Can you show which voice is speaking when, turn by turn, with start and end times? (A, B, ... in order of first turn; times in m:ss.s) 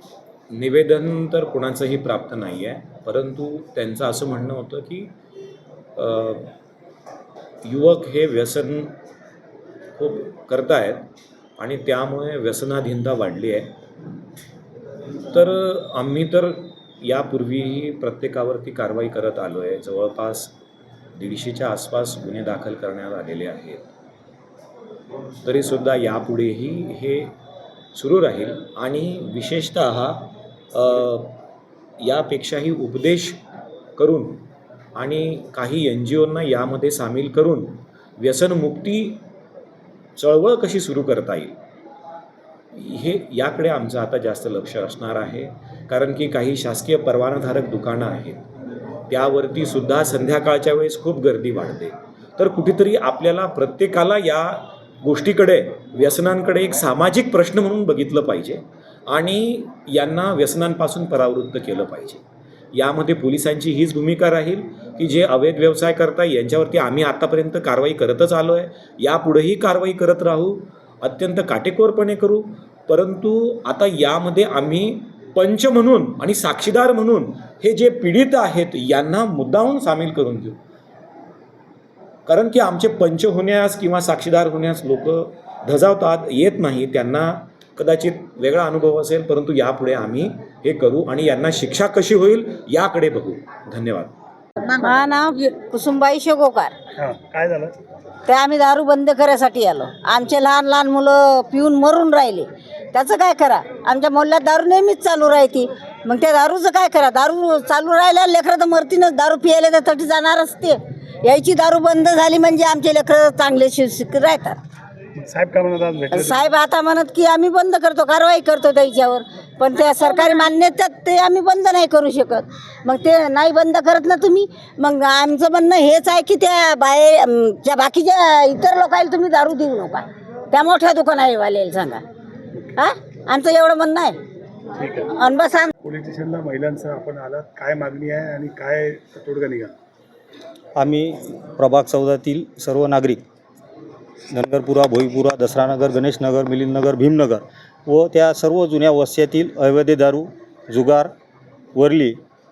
0:00.5-0:05.1 A
0:06.0-0:06.5 A
0:07.6-0:08.9 A
0:10.0-0:13.7 A
0:15.3-0:20.5 A
0:21.2-0:23.9 A
0:25.4-0:27.3 A
0:27.9-0:31.4 A
0:32.0-0:33.4 A
0:34.0-0:34.4 A
0:35.0-0:39.2 A
0:40.2-0:41.6 A
0:42.7-0:48.4 A
0:49.1-1:02.2 A
1:02.7-1:20.6 A
1:22.3-1:34.1 A
1:34.6-1:36.7 B
1:37.0-1:37.7 C
1:38.3-1:54.6 B
1:55.1-1:56.4 C
1:56.1-2:12.0 B
2:12.8-2:14.2 B
2:14.8-2:15.1 C
2:15.1-2:15.7 B
2:15.8-2:19.7 C
2:20.8-2:23.2 D
2:24.3-2:31.1 D
2:31.8-2:32.2 D